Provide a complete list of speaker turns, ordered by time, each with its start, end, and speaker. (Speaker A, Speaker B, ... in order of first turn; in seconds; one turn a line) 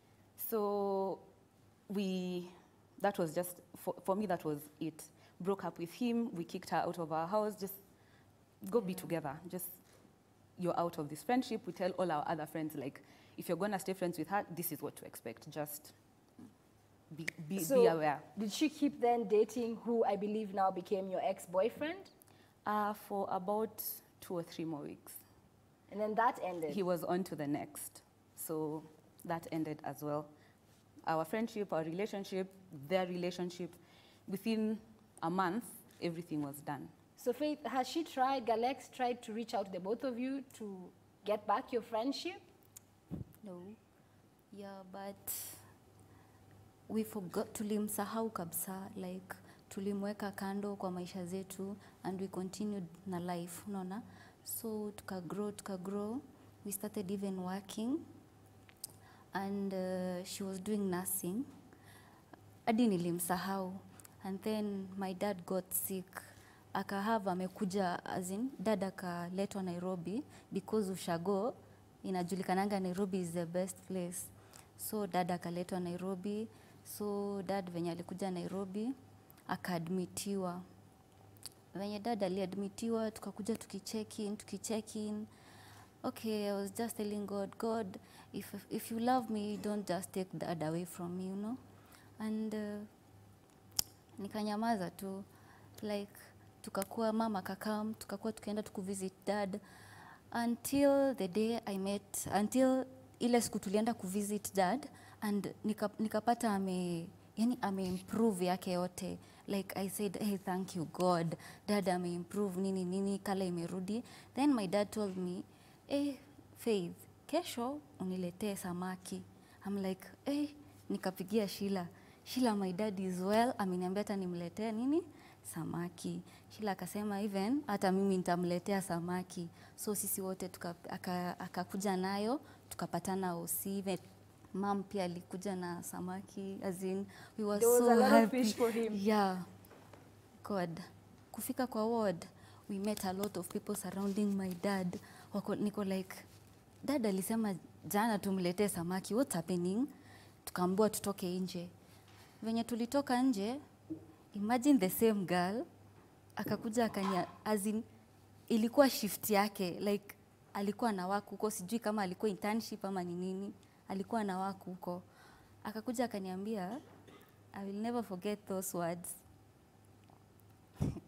Speaker A: 0.4-1.2
Speaker A: 1.9-7.8
Speaker A: 8.6-9.8
Speaker A: 10.6-15.9
Speaker A: 17.1-18.2
Speaker B: 17.6-22.1
Speaker A: 22.6-25.2
Speaker B: 25.9-26.8
Speaker A: 26.7-30.3
Speaker A: 31.1-36.9
Speaker B: 37.2-42.4
Speaker C: 43.4-43.8
Speaker C: 44.5-45.6
Speaker C: 46.9-58.0
Speaker C: 59.3-61.4
Speaker C: 62.6-66.2
Speaker C: 66.7-78.9
Speaker C: 79.5-80.6
Speaker C: 81.7-85.3
Speaker C: 86.0-91.6
Speaker C: 92.2-92.9
Speaker C: 94.2-95.2
Speaker C: 95.8-99.6
Speaker C: 100.3-134.0
Speaker C: 134.5-139.4
Speaker B: 137.5-139.0
Speaker C: 140.4-146.3
Speaker C: 146.8-149.9
Speaker C: 150.4-151.7
Speaker C: 152.4-153.6
Speaker C: 154.3-155.7
Speaker C: 156.4-157.8
Speaker C: 158.5-165.0
Speaker C: 165.6-166.8
Speaker C: 167.5-169.2